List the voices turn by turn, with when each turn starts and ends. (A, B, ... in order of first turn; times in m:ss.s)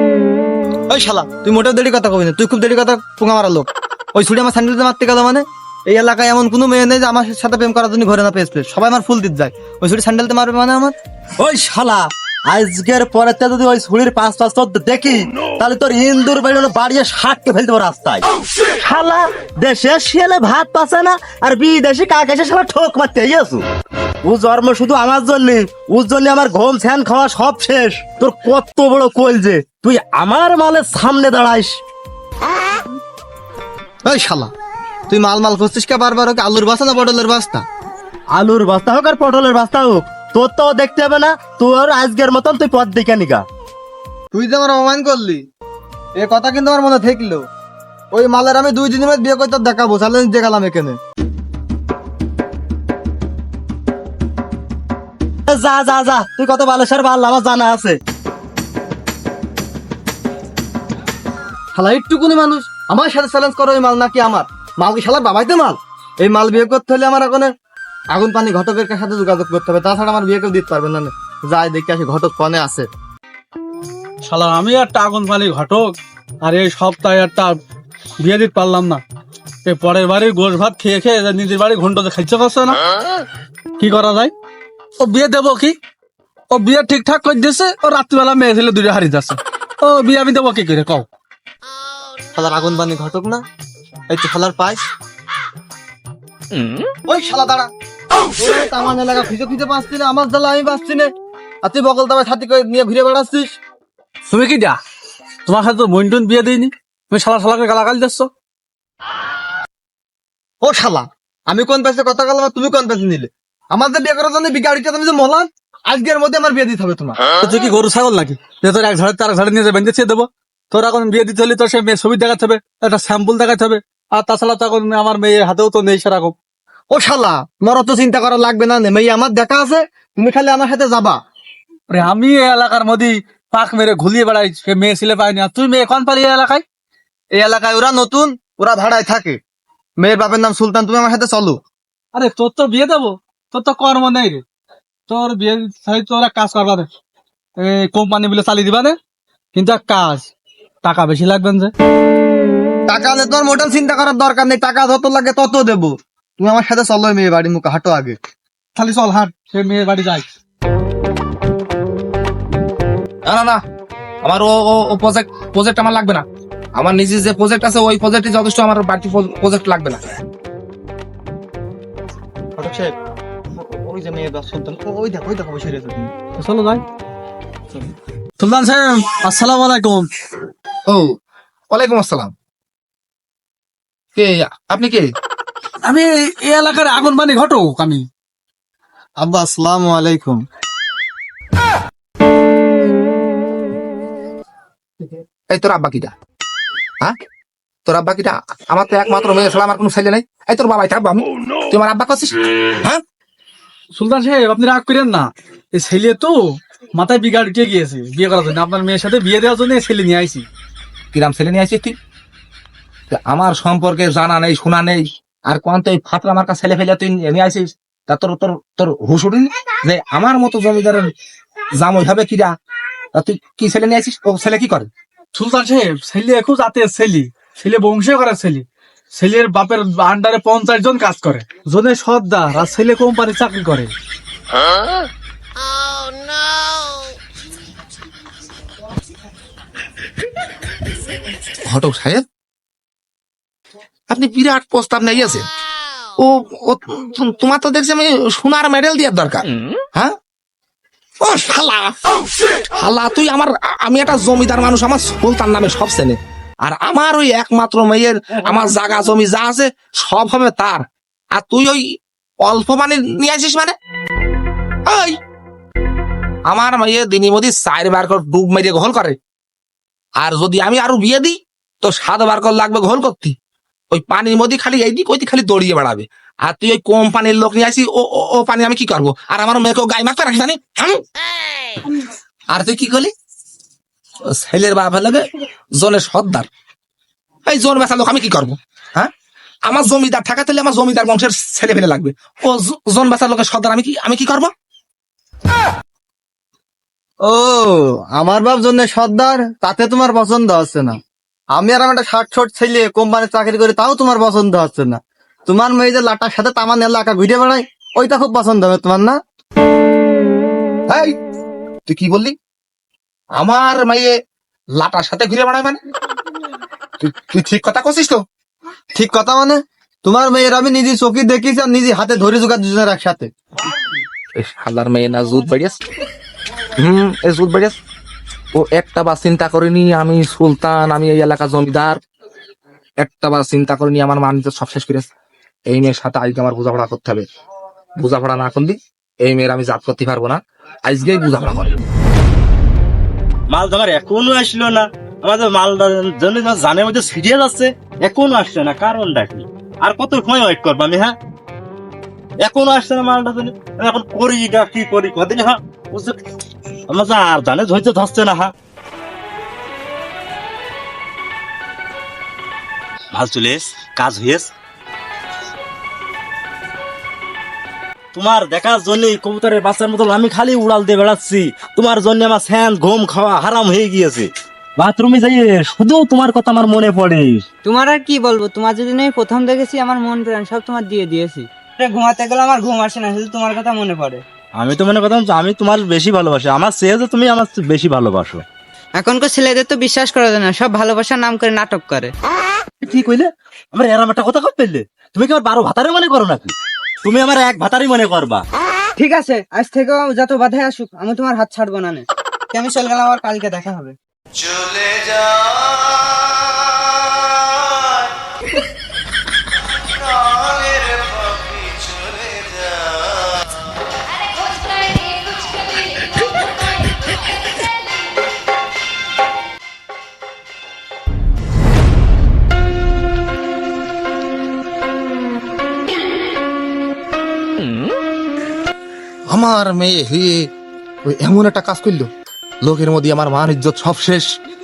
0:00.9-0:10.9 A
0:11.4-0:18.2 B
0:18.8-0:23.6 B
0:24.2-0:31.8 B
0:34.0-0:34.5 A
0:35.1-0:37.6 A
0:38.3-0:43.4 B
0:44.3-0:45.4 A
0:46.2-0:47.4 A
0:48.1-0:51.0 A
0:55.5-0:58.0 B
1:01.7-1:07.5 A
1:08.1-1:12.9 A
1:14.2-1:17.6 C
1:18.2-1:19.0 C
1:19.6-1:22.8 C
1:23.8-1:24.3 C
1:25.0-1:25.8 C
1:26.5-1:31.1 C
1:32.3-1:33.4 A
1:34.1-1:34.8 A
1:37.0-1:37.7 A
1:38.4-1:41.1 A
1:41.6-1:43.6 A
1:44.3-1:44.8 C
1:45.4-1:48.3 C
1:50.6-1:57.2 A
1:57.4-2:06.3 C
2:06.9-2:11.2 A
2:11.9-2:16.6 C
2:17.3-2:19.4 A
2:20.0-2:21.6 A
2:22.1-2:24.4 C
2:25.1-2:26.9 C
2:27.6-2:29.0 C
2:29.5-2:30.3 C
2:30.8-2:31.7 C
2:32.9-2:38.2 A
2:38.7-2:39.3 A
2:39.5-2:40.3 C
2:43.3-2:43.6 D
2:44.2-2:46.2 D
2:46.8-2:50.0 D
2:52.6-2:53.0 A
2:53.5-2:56.1 A
2:56.4-2:56.8 C
2:58.4-3:00.1 C
3:01.7-3:02.3 D
3:04.1-3:05.0 D
3:05.8-3:08.1 C
3:09.2-3:10.4 A
3:15.5-3:16.1 D
3:17.8-3:23.0 D
3:23.9-3:30.5 C
3:31.1-3:32.0 D
3:33.1-3:41.1 D
3:41.8-3:42.5 D
3:43.1-3:44.9 D
3:45.3-3:53.9 C
4:01.6-4:02.2 D
4:04.1-4:05.5 D
4:06.2-4:10.1 D
4:11.2-4:11.9 D
4:12.8-4:20.8 D
4:21.3-4:21.8 D
4:22.4-4:23.7 D
4:24.8-4:25.2 D
4:26.5-4:29.2 D
4:30.2-4:33.3 D
4:33.9-4:41.0 D
4:42.5-4:43.1 D
4:44.4-4:45.2 D
4:45.8-4:46.5 D
4:47.5-4:49.1 D
4:49.6-4:54.5 D
4:57.2-5:01.0 A
5:01.5-5:09.2 A
5:10.9-5:11.1 D
5:11.8-5:12.3 D
5:13.4-5:14.1 D
5:14.8-5:15.8 D
5:17.0-5:18.2 D
5:18.9-5:23.3 A
5:24.4-5:25.8 D
5:26.8-5:27.8 D
5:28.5-5:32.0 D
5:33.0-5:35.1 D
5:35.7-5:37.2 D
5:38.0-5:41.8 D
5:43.5-5:51.2 B
5:52.4-5:56.2 B
5:56.9-5:58.5 B
6:03.1-6:04.5 B
6:08.1-6:17.4 B
6:17.6-6:24.2 E
6:24.6-6:28.4 B
6:29.0-6:32.1 E
6:32.8-6:38.4 B
6:39.0-6:44.0 E
7:09.3-7:10.4 D
7:11.1-7:12.1 D
7:12.6-7:14.2 D